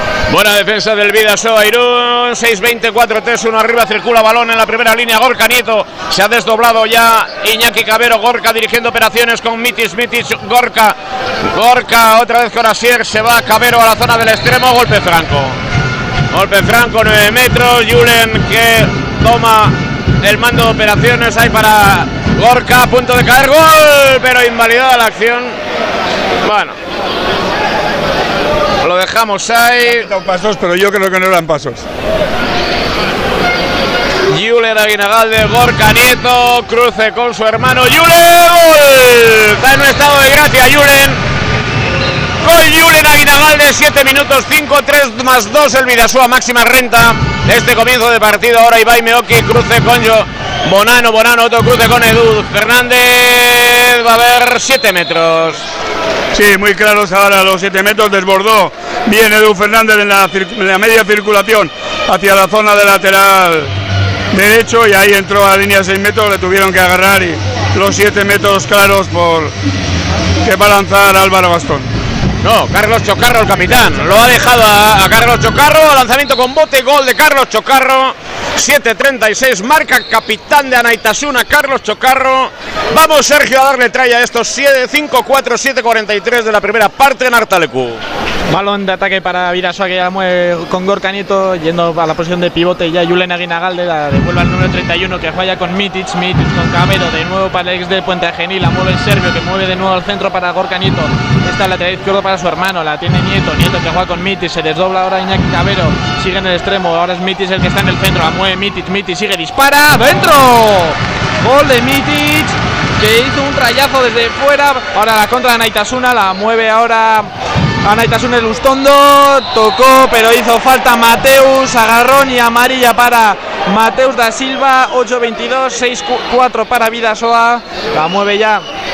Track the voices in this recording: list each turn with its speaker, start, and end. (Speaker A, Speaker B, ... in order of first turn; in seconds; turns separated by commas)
Speaker A: 0.3-11.0, Speaker A: 11.5-15.6, Speaker A: 16.3-25.6, Speaker A: 26.4-26.8, Speaker A: 28.8-30.1, Speaker B: 30.1-31.8, Speaker A: 34.3-41.2, Speaker A: 42.4-55.6, Speaker B: 56.3-63.7, Speaker B: 64.3-69.5, Speaker B: 70.4-71.9, Speaker A: 72.4-88.0, Speaker C: 88.5-117.3, Speaker C: 117.8-128.6